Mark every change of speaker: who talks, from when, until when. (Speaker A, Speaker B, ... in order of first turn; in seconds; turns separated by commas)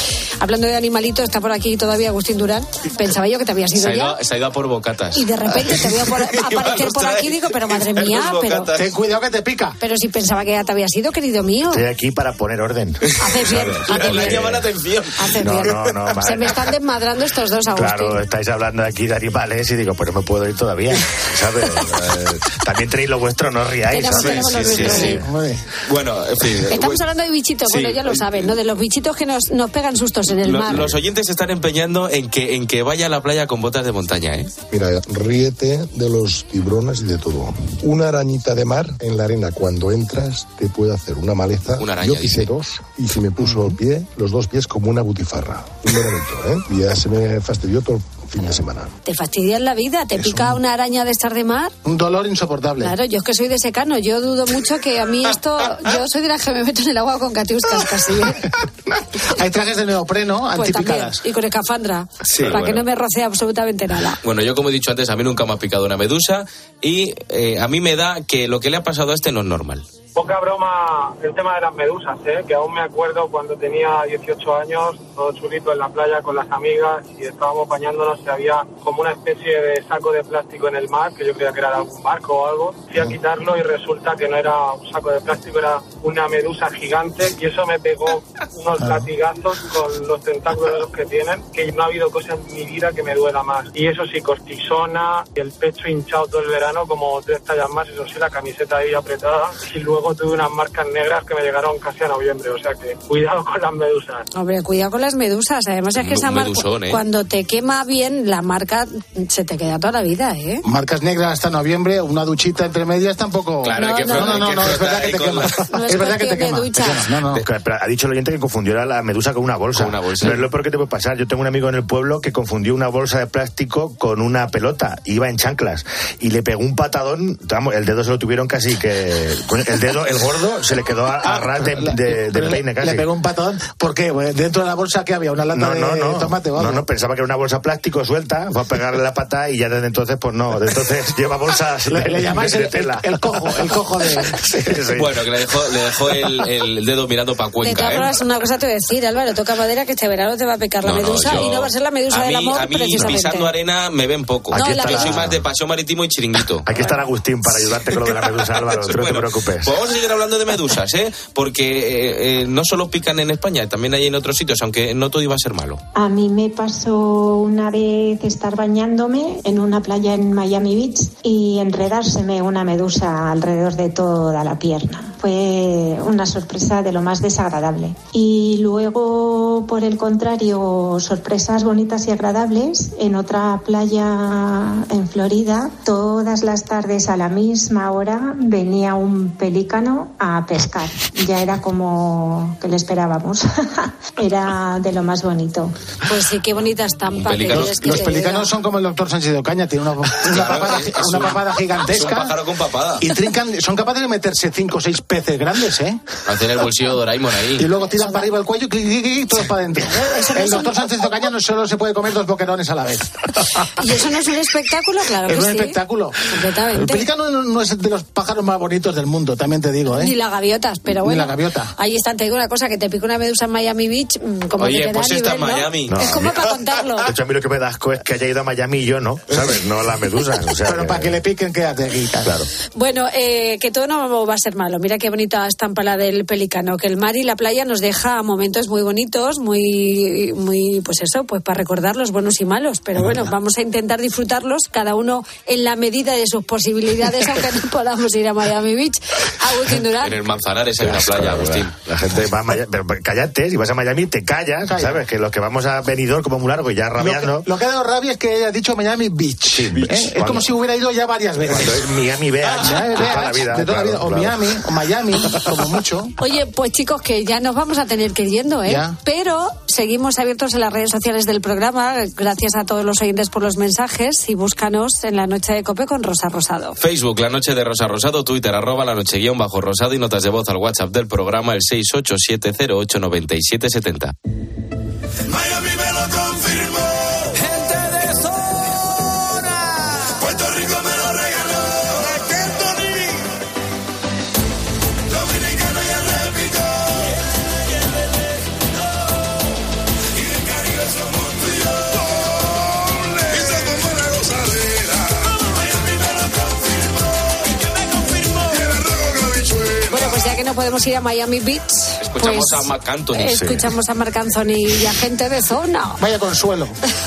Speaker A: 0.4-4.2, Speaker B: 3.8-8.9, Speaker A: 5.1-8.7, Speaker C: 8.8-9.8, Speaker A: 9.8-11.8, Speaker D: 11.7-14.7, Speaker A: 13.2-14.6, Speaker B: 13.3-15.4, Speaker A: 15.2-18.2, Speaker D: 15.3-16.6, Speaker D: 17.7-25.3, Speaker A: 23.9-25.2, Speaker B: 24.1-25.2, Speaker C: 24.3-25.6, Speaker B: 25.8-27.1, Speaker A: 26.7-31.0, Speaker B: 27.7-28.3, Speaker B: 30.4-34.5, Speaker E: 34.7-48.9, Speaker B: 41.8-42.5, Speaker A: 49.1-51.8, Speaker C: 50.2-50.6, Speaker C: 51.9-52.9, Speaker A: 52.8-58.5, Speaker C: 59.2-61.2, Speaker A: 60.5-64.2, Speaker B: 62.3-62.8, Speaker B: 64.2-69.8, Speaker F: 70.2-104.3, Speaker C: 88.8-89.1, Speaker A: 104.3-110.6, Speaker B: 106.0-107.0, Speaker C: 110.7-117.4, Speaker B: 113.6-115.7, Speaker A: 113.8-114.5, Speaker A: 115.7-117.1, Speaker D: 117.3-133.1, Speaker B: 119.8-120.5, Speaker C: 131.2-136.8, Speaker D: 135.5-145.1, Speaker C: 141.9-144.4, Speaker B: 144.9-148.1, Speaker A: 147.6-153.5, Speaker B: 150.8-156.8, Speaker D: 154.5-155.4, Speaker A: 154.5-155.2, Speaker D: 156.6-159.8, Speaker B: 157.9-165.8, Speaker G: 166.0-195.8, Speaker A: 196.1-198.5, Speaker B: 197.1-197.9, Speaker C: 197.5-202.3, Speaker B: 200.2-203.1, Speaker C: 203.0-206.0, Speaker B: 206.3-207.7, Speaker C: 207.6-213.7, Speaker A: 209.9-210.7, Speaker A: 213.8-217.1, Speaker C: 215.2-220.1, Speaker A: 220.0-227.1, Speaker C: 220.9-221.7, Speaker B: 224.6-226.3, Speaker D: 225.9-226.3, Speaker D: 227.0-231.2, Speaker C: 230.6-232.4, Speaker D: 232.2-232.5, Speaker A: 232.8-250.2, Speaker B: 250.0-251.7, Speaker D: 250.8-257.5, Speaker C: 254.7-255.0, Speaker C: 257.0-261.9, Speaker D: 259.7-260.5, Speaker D: 261.5-264.6, Speaker C: 262.4-266.1, Speaker A: 266.2-276.8, Speaker C: 268.7-269.0, Speaker B: 276.8-284.1, Speaker A: 309.9-316.0, Speaker B: 312.0-313.5, Speaker D: 313.3-313.6, Speaker C: 316.0-316.8